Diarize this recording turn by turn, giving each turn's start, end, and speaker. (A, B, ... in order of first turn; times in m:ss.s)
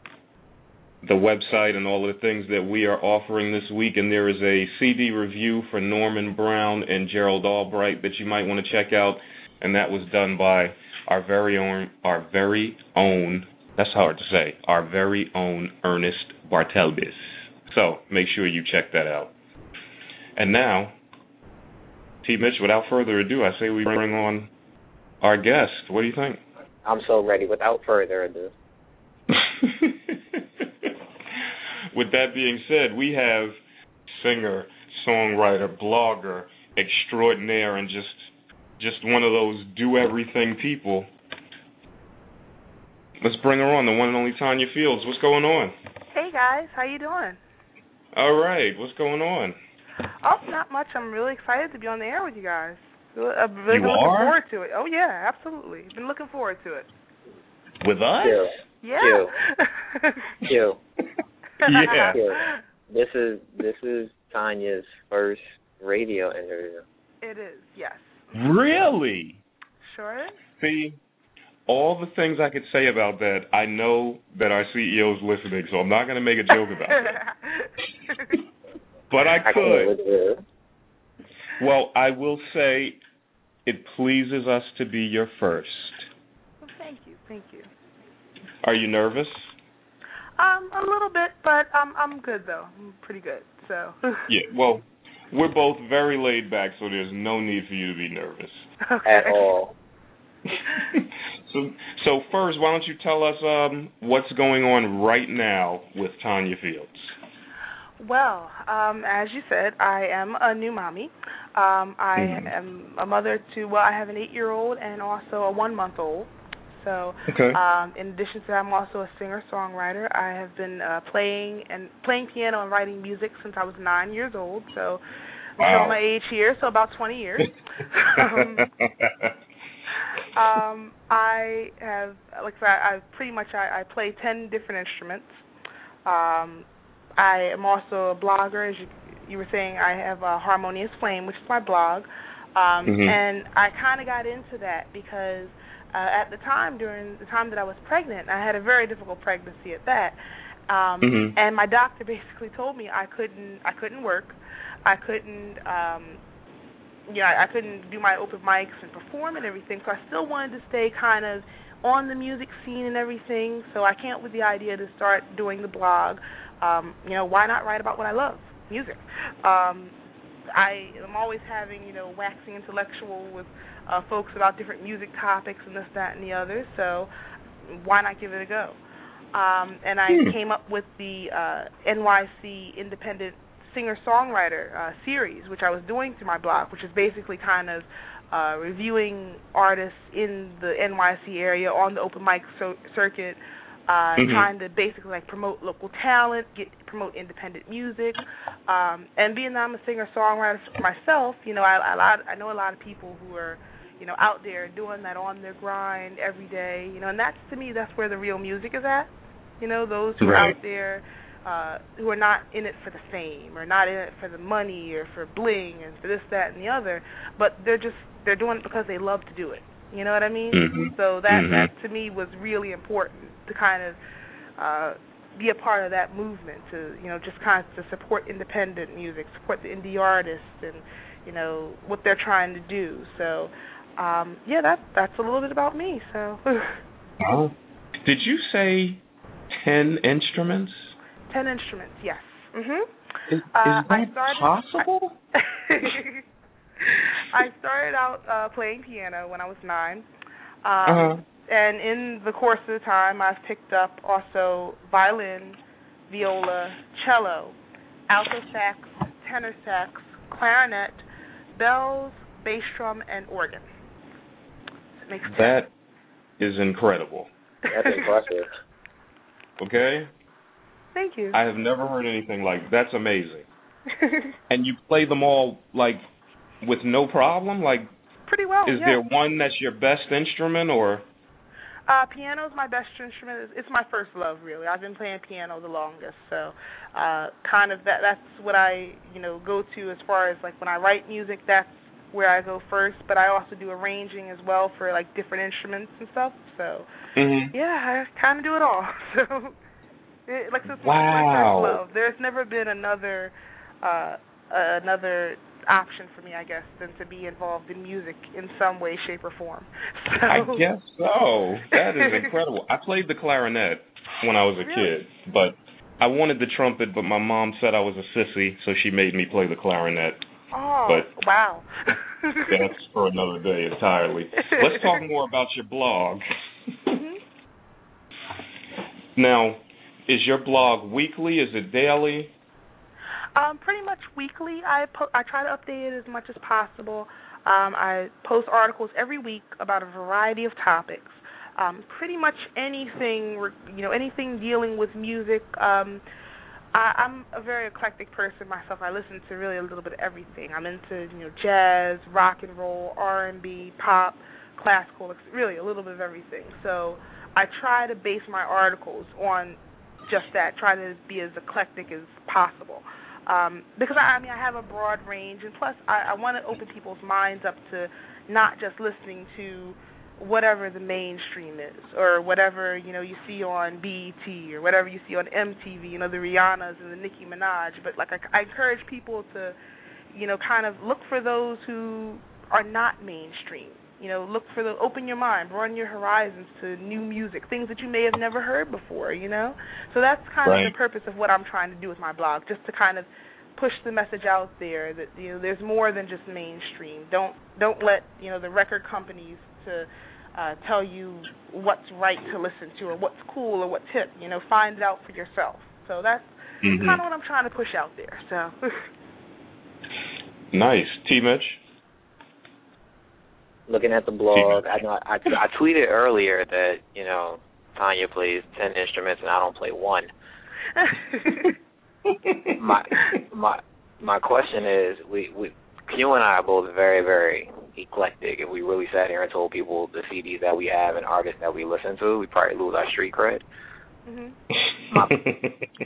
0:01.0-0:19.3 A
0:20.4-0:21.0 A
0:22.2-0:24.5 A
0:25.2-0:26.4 A
0:26.8-0:28.5 B
0:29.3-0:30.2 A
0:31.9-0:33.5 A
0:34.1-0:41.1 A
0:43.2-0:45.7 A
0:46.1-0:47.4 C
0:48.2-0:49.6 A
0:50.2-0:56.9 C
0:53.7-0:54.4 A
0:57.8-0:58.4 A
0:58.2-0:59.3 B
0:58.8-1:00.3 C
1:00.4-1:00.8 B
1:01.6-1:02.2 A
1:01.6-1:02.6 C
1:02.1-1:06.8 B
1:07.2-1:08.1 C
1:08.3-1:09.4 A
1:09.8-1:10.4 C
1:10.6-1:11.0 A
1:11.7-1:17.2 A
1:16.9-1:18.4 C
1:19.1-1:19.9 A
1:19.4-1:20.4 B
1:21.6-1:23.0 A
1:23.7-1:26.1 A
1:26.6-1:27.7 C
1:28.6-1:29.5 A
1:30.4-1:34.2 C
1:34.3-1:38.7 A
1:38.9-1:39.4 C
1:39.0-1:39.8 B
1:40.7-1:47.1 A
1:48.0-2:05.0 C
1:52.2-1:52.5 A
1:57.3-1:57.6 A
2:05.6-2:08.6 C
2:05.6-2:06.0 A
2:08.2-2:09.4 A
2:10.3-2:15.4 C
2:16.0-2:30.2 C
2:22.9-2:23.2 A
2:30.7-2:36.2 C
2:31.0-2:31.3 A
2:37.1-2:50.0 C
2:50.5-2:57.1 C
2:57.6-2:58.8 C
2:59.3-3:44.0 C
3:14.2-3:14.5 A
3:30.2-3:30.6 A
3:40.5-3:41.7 A
3:44.6-3:56.8 C
3:57.2-3:59.0 A
3:59.6-4:00.9 A
4:01.3-4:02.9 C
4:03.3-4:05.2 A
4:03.5-4:04.9 C
4:05.4-4:06.2 C
4:06.8-4:10.1 C
4:10.6-4:15.6 C
4:10.9-4:11.2 A
4:16.1-4:17.6 C
4:18.1-4:21.0 C
4:21.6-4:23.7 C
4:25.1-4:25.6 C
4:25.2-4:25.7 A
4:26.4-4:27.3 A
4:27.7-4:28.5 B
4:27.8-4:28.0 C
4:29.6-4:30.1 A
4:31.0-4:31.4 C
4:31.3-4:33.5 A
4:34.0-4:34.3 C
4:34.5-4:36.0 A
4:36.6-4:37.9 A
4:38.3-4:39.0 C
4:38.7-4:41.0 A
4:41.9-4:56.9 C
4:57.2-4:57.5 A
4:57.5-4:59.6 C
5:00.3-5:10.6 C
5:00.8-5:01.8 A
5:10.3-5:20.2 A
5:12.0-5:12.3 C
5:14.6-5:14.9 C
5:20.5-5:22.6 C
5:22.5-5:26.2 A
5:24.4-5:25.0 C
5:26.9-5:27.2 C
5:29.2-5:32.3 A
5:33.4-5:46.0 C
5:46.7-6:19.6 C
6:20.1-6:48.9 C
6:30.4-6:30.7 A
6:46.6-6:47.0 A
6:50.5-6:51.6 A
6:53.7-7:00.1 B
6:54.4-6:54.6 A
7:00.8-7:01.5 C
7:02.1-7:02.5 A
7:02.6-7:13.4 B
7:14.1-7:14.4 C
7:14.9-7:15.2 B
7:15.1-7:15.5 A